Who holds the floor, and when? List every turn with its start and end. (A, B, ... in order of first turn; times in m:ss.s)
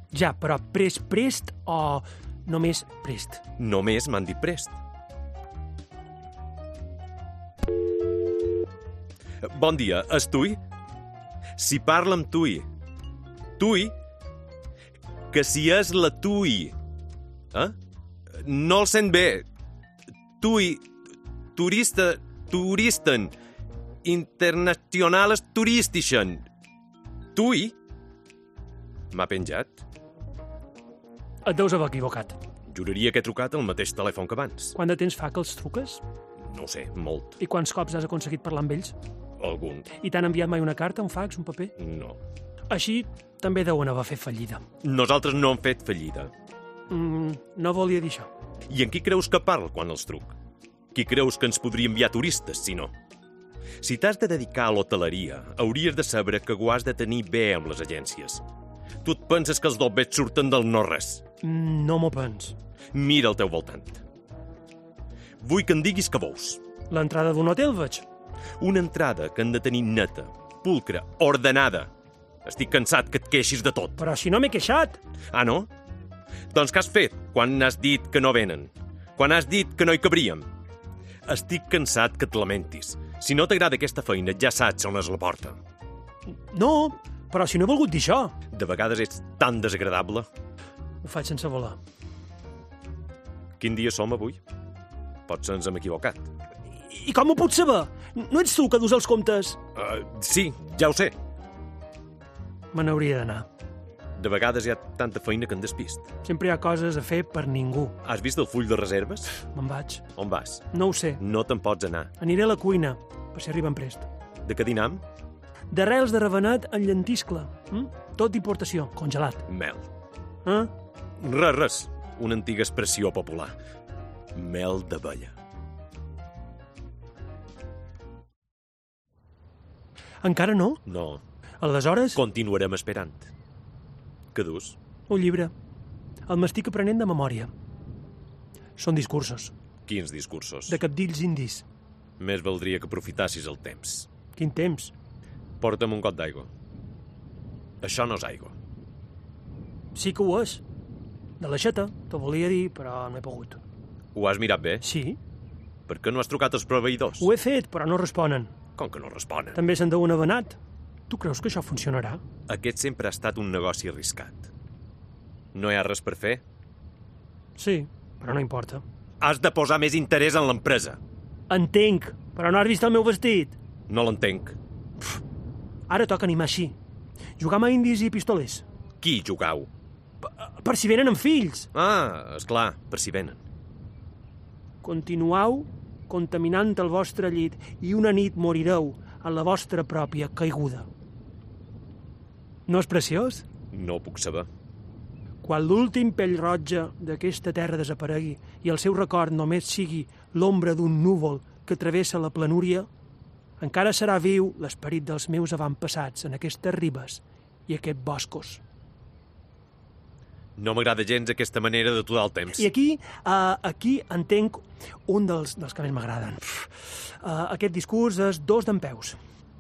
0:00.1-0:03.4 A
0:03.6-0:04.8 B
0:09.4-0:10.6 B
0:11.6-0:12.7 B
0:13.6-0:13.9 B
0:15.3-0:16.8 B
0:18.3-0:19.4 B
0:20.4-0:20.9 B
0:21.5-0:23.3 B
0:24.0-0:26.4 B
0:27.3-0:27.8 B
0:29.1-0:29.8 B
0:31.4-0:32.4 A
0:32.7-0:34.7 B
0:34.7-0:36.0 A
0:36.4-0:37.4 B
0:37.4-0:39.0 A
0:39.4-0:39.9 B
0:39.9-0:41.7 A
0:41.8-0:42.2 B
0:42.7-0:44.6 A
0:44.8-0:46.3 B
0:46.9-0:48.3 A
0:48.7-0:50.4 B
0:50.9-0:52.9 B
0:53.8-0:58.4 B
0:59.0-1:01.2 B
1:01.4-1:02.6 A
1:02.9-1:04.0 B
1:05.4-1:06.6 B
1:06.9-1:08.0 A
1:08.6-1:11.9 B
1:12.4-1:14.0 B
1:14.0-1:15.0 A
1:15.3-1:15.7 B
1:16.5-1:20.5 B
1:21.3-1:25.6 B
1:26.5-1:28.3 A
1:28.5-1:30.3 B
1:31.0-1:31.8 A
1:33.6-1:34.4 B
1:35.3-1:36.3 B
1:36.9-1:39.6 A
1:39.7-1:41.1 B
1:42.7-1:43.4 A
1:44.2-1:46.1 B
1:46.2-1:48.0 A
1:48.0-1:49.4 B
1:49.4-1:50.0 A
1:50.2-1:50.6 B
1:50.7-1:51.2 A
1:51.2-1:52.1 B
1:52.2-1:54.1 A
1:54.4-1:55.0 B
1:55.7-1:59.4 A
1:59.5-1:59.9 B
2:00.4-2:00.7 A
2:01.2-2:03.5 B
2:04.3-2:05.3 B
2:10.2-2:10.8 A
2:10.8-2:11.2 B
2:11.6-2:12.2 A
2:12.1-2:13.3 B
2:14.3-2:14.8 B
2:15.1-2:15.5 A
2:16.3-2:17.5 A
2:18.8-2:19.5 A
2:19.8-2:20.8 B
2:20.7-2:21.6 A
2:22.2-2:24.1 B
2:24.4-2:24.9 A
2:25.6-2:26.5 B
2:27.8-2:28.6 B
2:29.9-2:30.6 A
2:31.4-2:33.6 A
2:34.1-2:34.8 B
2:34.8-2:35.2 A
2:35.9-2:37.3 B
2:37.2-2:38.5 A
2:38.8-2:39.6 B
2:39.5-2:40.6 A
2:41.1-2:42.2 A
2:42.5-2:44.5 B
2:45.5-2:46.4 B
2:47.6-2:48.8 A
2:49.2-2:51.0 B
2:51.5-2:53.6 A
2:53.9-2:54.6 B
2:55.9-2:56.8 A
2:57.4-2:58.6 A
2:59.0-2:59.7 B
3:00.2-3:01.7 A
3:01.7-3:03.4 B
3:04.8-3:10.9 A
3:12.7-3:13.4 A
3:13.7-3:14.5 B
3:15.4-3:22.9 A
3:23.6-3:28.6 A
3:30.6-3:32.7 B
3:32.5-3:39.2 A